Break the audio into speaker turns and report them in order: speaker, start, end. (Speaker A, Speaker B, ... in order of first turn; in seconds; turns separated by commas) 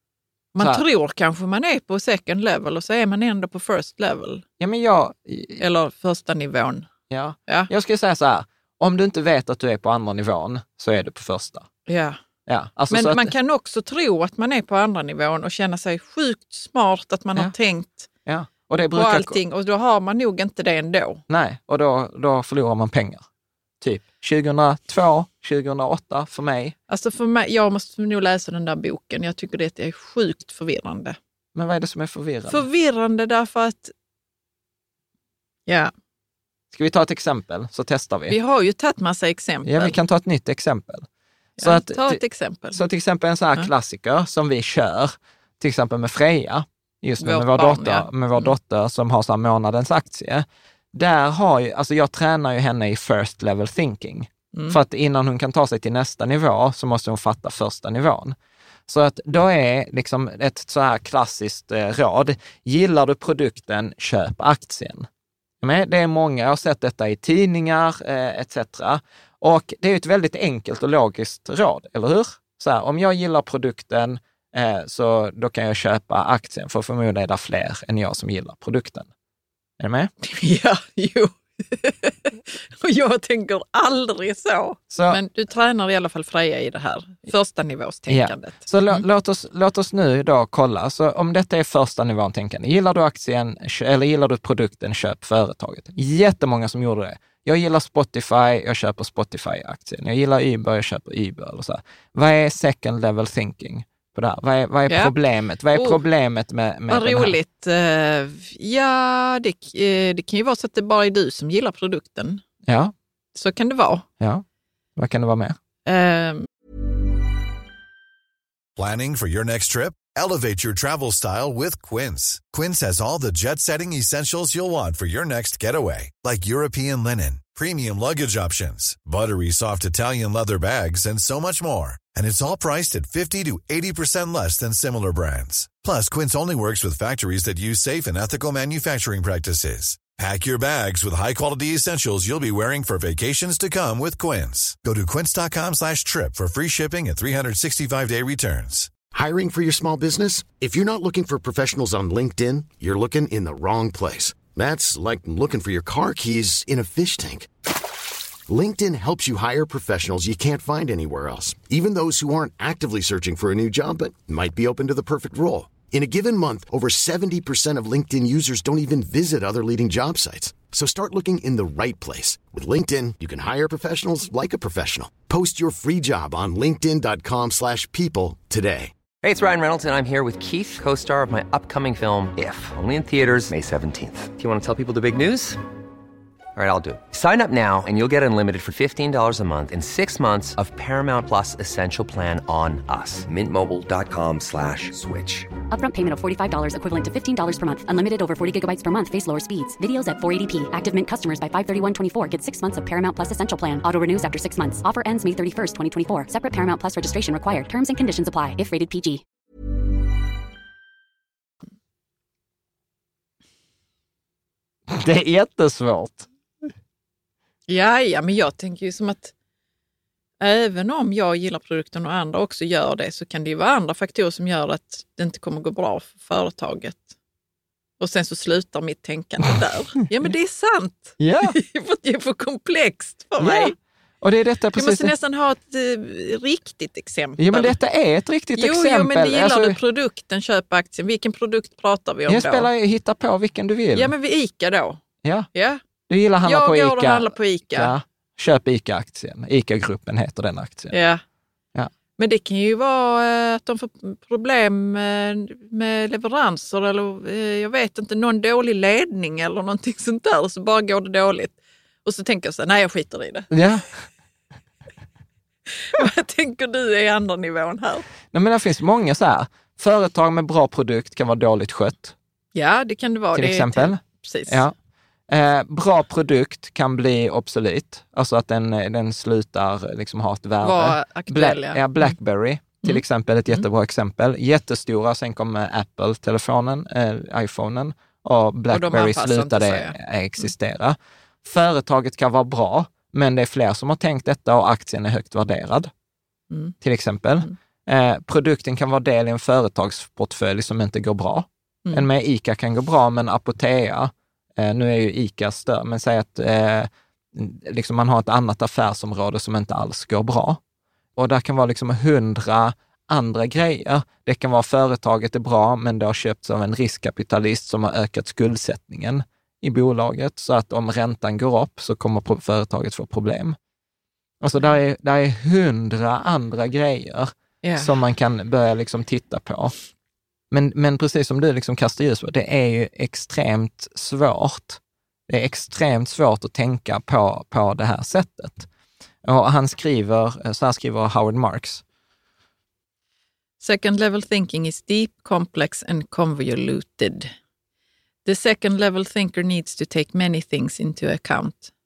Speaker A: 0.5-4.4, Speaker B: 0.6-0.8, Speaker B: 4.6-5.6, Speaker A: 5.6-6.9, Speaker B: 7.1-11.7, Speaker A: 11.9-12.2, Speaker B: 12.4-13.3, Speaker A: 12.9-18.1, Speaker B: 18.2-19.4, Speaker A: 18.9-21.2, Speaker B: 21.3-23.2, Speaker B: 23.8-26.8, Speaker A: 26.9-31.2, Speaker B: 31.5-32.6, Speaker A: 32.5-33.9, Speaker A: 35.7-35.9, Speaker B: 36.7-38.4, Speaker A: 38.3-40.0, Speaker B: 39.6-41.1, Speaker A: 41.6-42.8, Speaker B: 41.6-42.2, Speaker B: 42.7-58.4, Speaker A: 47.2-48.5, Speaker A: 54.5-54.8, Speaker B: 58.9-65.1, Speaker B: 65.6-79.1, Speaker B: 79.8-80.1, Speaker A: 80.2-89.0, Speaker B: 84.9-85.2, Speaker B: 88.1-107.4, Speaker A: 104.9-105.1, Speaker A: 105.7-106.0, Speaker A: 106.9-112.4, Speaker B: 112.7-112.9, Speaker A: 113.3-114.0, Speaker B: 115.0-115.5, Speaker A: 115.8-116.5, Speaker C: 118.8-148.9, Speaker D: 149.1-157.5, Speaker D: 158.5-178.9, Speaker E: 179.2-185.6, Speaker E: 186.5-195.6, Speaker F: 195.7-209.2, Speaker B: 214.9-216.3, Speaker A: 217.7-219.3, Speaker A: 220.4-227.1, Speaker A: 228.0-233.7, Speaker B: 231.2-231.6, Speaker B: 233.4-235.1, Speaker A: 234.7-237.8, Speaker B: 237.4-239.8, Speaker A: 238.6-242.7, Speaker B: 242.3-244.1, Speaker A: 243.9-245.0, Speaker B: 245.2-245.5, Speaker A: 245.5-245.8, Speaker B: 246.1-250.9, Speaker A: 246.4-247.9, Speaker A: 250.9-251.2, Speaker A: 252.2-263.5, Speaker B: 263.5-263.9, Speaker A: 265.7-268.1, Speaker B: 268.3-272.1, Speaker A: 272.5-274.6, Speaker B: 273.3-274.7, Speaker B: 275.3-295.9, Speaker A: 280.6-282.1, Speaker A: 282.8-283.6, Speaker A: 288.7-290.5, Speaker B: 296.8-310.6, Speaker B: 311.1-323.6, Speaker B: 324.4-329.7, Speaker A: 327.6-328.0, Speaker B: 330.5-338.7, Speaker B: 339.2-341.8, Speaker A: 343.6-347.3, Speaker A: 348.2-351.7